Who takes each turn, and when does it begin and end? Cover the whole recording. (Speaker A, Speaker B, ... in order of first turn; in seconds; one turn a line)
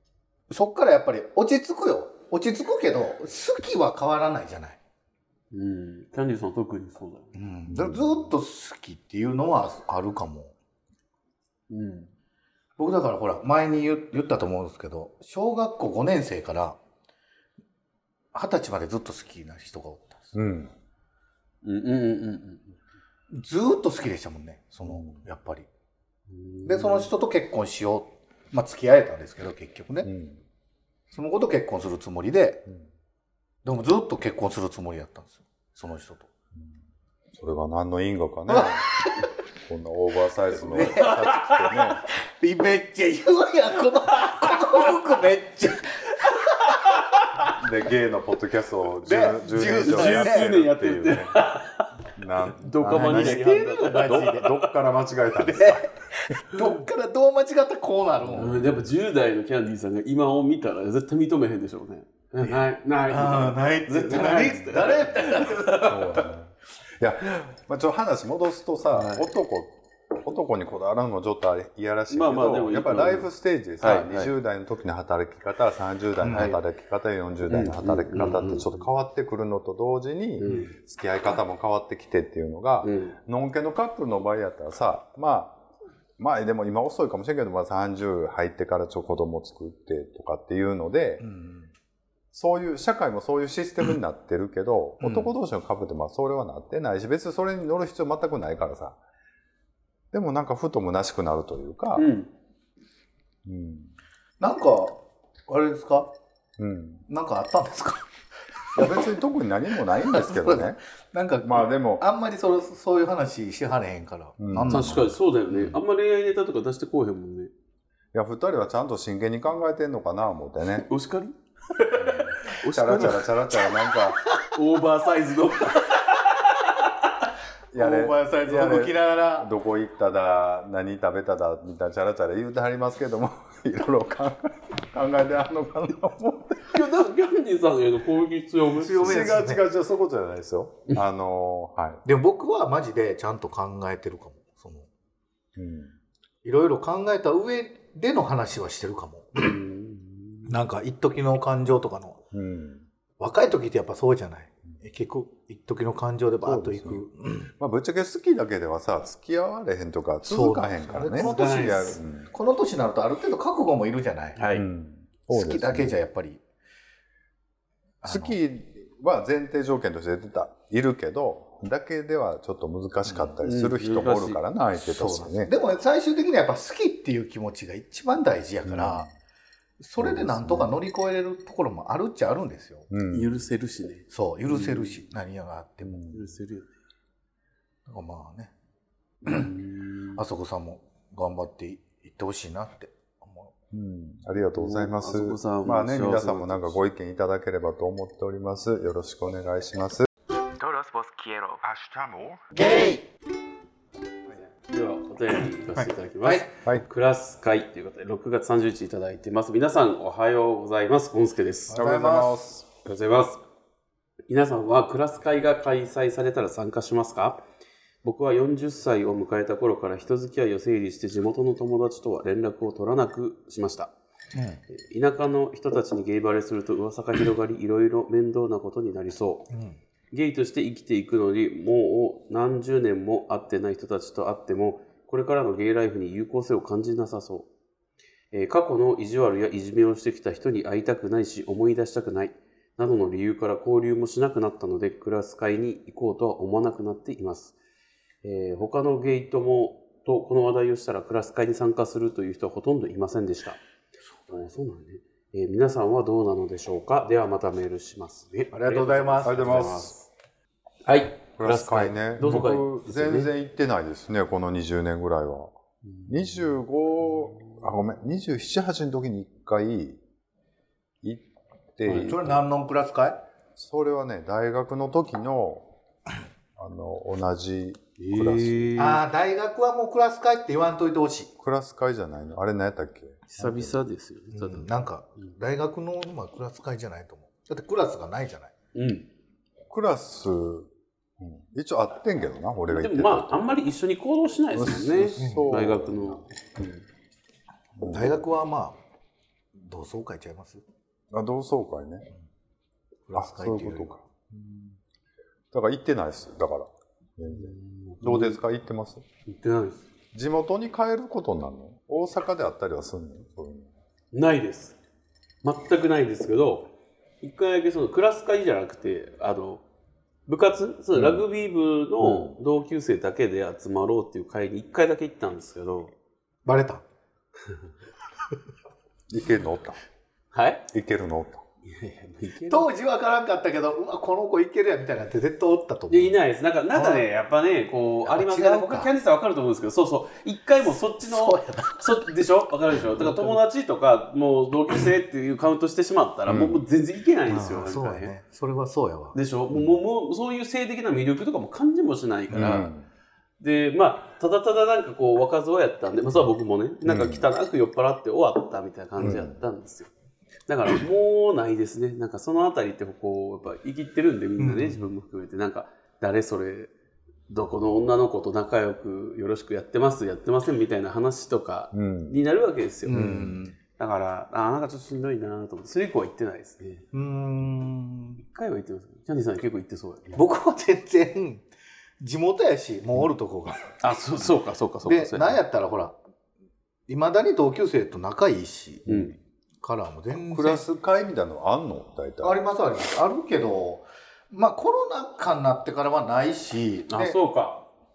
Speaker A: 0.5-4.8
Speaker B: 5.5-7.3
Speaker A: 7.3-10.5
Speaker C: 7.7-8.2
Speaker B: 11.7-12.1
Speaker A: 12.8-16.8
Speaker A: 18.3-20.4
Speaker C: 20.4-20.7
Speaker B: 21.6-22.8
Speaker A: 23.3-25.7
Speaker C: 24.8-25.2
Speaker B: 26.3-27.1
Speaker A: 26.6-30.1
Speaker C: 30.0-30.4
Speaker A: 31.1-32.7
Speaker A: 33.6-36.3
Speaker C: 37.3-38.9
Speaker A: 38.5-39.3
Speaker C: 39.7-42.0
Speaker A: 40.6-41.4
Speaker B: 41.0-41.5
Speaker A: 42.2-47.0
Speaker B: 46.7-47.5
Speaker C: 47.5-51.4
Speaker A: 49.0-50.5
Speaker B: 49.9-51.9
Speaker C: 52.2-55.9
Speaker B: 52.5-54.5
Speaker A: 52.9-54.6
Speaker A: 55.3-58.6
Speaker C: 58.2-58.9
Speaker B: 58.4-66.2
Speaker A: 62.5-66.0
Speaker C: 64.4-65.0
Speaker C: 65.7-85.6
Speaker B: 68.9-69.3
Speaker B: 72.1-74.3
Speaker A: 76.2-76.5
Speaker B: 76.3-76.6
Speaker B: 77.5-78.8
Speaker B: 80.4-80.8
Speaker B: 82.8-83.2
Speaker C: 86.2-91.2
Speaker A: 91.2-91.7
Speaker C: 92.3-99.0
Speaker A: 95.0-95.3
Speaker C: 100.1-102.1
Speaker B: 102.0-102.3
Speaker C: 103.5-103.9
Speaker A: 104.4-106.1
Speaker C: 106.6-107.0
Speaker A: 107.1-108.1
Speaker A: 108.7-109.2
Speaker C: 108.8-110.8
Speaker A: 109.9-115.1
Speaker C: 111.4-112.0
Speaker C: 114.4-115.8
Speaker B: 114.7-117.5
Speaker C: 118.1-120.9
Speaker B: 120.8-123.3
Speaker C: 122.0-124.2
Speaker B: 124.5-127.0
Speaker C: 127.7-136.8
Speaker A: 127.7-129.5
Speaker B: 136.7-139.2
Speaker A: 138.8-139.7
Speaker C: 139.0-142.0
Speaker A: 142.1-144.9
Speaker C: 145.6-145.9
Speaker A: 146.4-149.6
Speaker B: 149.4-150.6
Speaker A: 150.5-152.2
Speaker C: 152.3-152.9
Speaker A: 153.2-157.5
Speaker C: 156.4-157.0
Speaker C: 157.6-162.3
Speaker A: 160.2-164.4
Speaker B: 161.1-162.0
Speaker B: 164.4-164.7
Speaker C: 164.5-166.0
Speaker A: 165.3-166.4
Speaker A: 168.0-168.4
Speaker C: 168.1-175.5
Speaker A: 173.1-173.3
Speaker B: 173.4-174.4
Speaker A: 174.8-179.1
Speaker C: 178.7-179.1
Speaker A: 179.8-182.9
Speaker C: 180.0-180.8
Speaker C: 182.9-183.3
Speaker B: 183.1-185.0
Speaker A: 184.1-186.1
Speaker C: 185.8-186.2
Speaker B: 186.1-186.7
Speaker A: 187.9-188.5
Speaker B: 189.2-190.2
Speaker A: 189.2-189.5
Speaker A: 190.2-193.5
Speaker C: 193.7-200.1
Speaker B: 194.6-196.8
Speaker B: 200.6-201.6
Speaker C: 201.6-202.5
Speaker A: 202.6-202.9
Speaker B: 204.3-211.8
Speaker A: 205.8-206.5
Speaker A: 211.7-212.4
Speaker C: 211.7-212.7
Speaker B: 212.8-213.4
Speaker B: 214.3-217.4
Speaker B: 218.0-223.9
Speaker A: 224.3-224.6
Speaker B: 224.7-229.5
Speaker A: 229.5-229.8
Speaker B: 230.1-237.5
Speaker B: 238.3-247.6
Speaker B: 248.2-253.6
Speaker B: 254.3-260.1
Speaker A: 258.5-259.8
Speaker C: 259.2-259.9
Speaker B: 260.9-263.3
Speaker C: 261.4-265.5
Speaker C: 266.1-270.0
Speaker C: 271.0-272.4
Speaker B: 271.9-272.1
Speaker A: 272.0-273.2
Speaker C: 273.6-275.7
Speaker C: 276.6-278.8
Speaker B: 278.0-279.0
Speaker A: 278.8-281.3
Speaker C: 281.4-283.8
Speaker B: 283.3-284.7
Speaker A: 284.3-288.5
Speaker B: 288.8-289.1
Speaker C: 289.7-293.5
Speaker B: 292.7-296.3
Speaker C: 294.5-296.7
Speaker A: 295.2-295.5
Speaker C: 297.8-298.2
Speaker A: 297.8-298.8
Speaker A: 299.6-300.6
Speaker C: 301.1-302.1
Speaker A: 303.1-304.0
Speaker C: 303.1-304.0
Speaker C: 305.5-309.0
Speaker B: 307.3-308.4
Speaker B: 309.3-309.8
Speaker C: 310.1-313.7
Speaker B: 314.1-314.8
Speaker B: 315.4-316.7
Speaker B: 317.2-319.6
Speaker B: 320.3-325.9
Speaker C: 320.9-321.2
Speaker C: 322.0-322.4
Speaker A: 326.4-326.8
Speaker C: 329.1-329.8
Speaker B: 330.3-330.6
Speaker C: 330.7-331.4
Speaker B: 331.6-332.7
Speaker A: 332.5-336.2
Speaker B: 335.9-348.1
Speaker A: 336.7-337.1
Speaker A: 338.1-338.9
Speaker A: 341.0-341.9
Speaker A: 343.0-343.4
Speaker C: 346.3-346.6
Speaker A: 347.3-349.2
Speaker B: 349.1-352.7
Speaker C: 352.3-352.9
Speaker B: 353.4-359.9
Speaker C: 356.9-357.3
Speaker C: 359.0-359.4
Speaker B: 360.5-366.7
Speaker A: 364.4-364.8
Speaker B: 367.3-373.2
Speaker C: 371.7-372.2
Speaker A: 372.9-373.6
Speaker C: 372.9-373.4
Speaker B: 373.8-376.8
Speaker A: 376.9-378.2
Speaker B: 378.2-380.2
Speaker A: 380.1-381.5
Speaker A: 382.0-383.8
Speaker B: 383.8-385.4
Speaker A: 384.9-386.0
Speaker A: 386.9-388.9
Speaker B: 388.9-389.1
Speaker A: 389.6-390.7
Speaker C: 390.3-392.4
Speaker A: 392.2-397.2
Speaker B: 396.9-397.6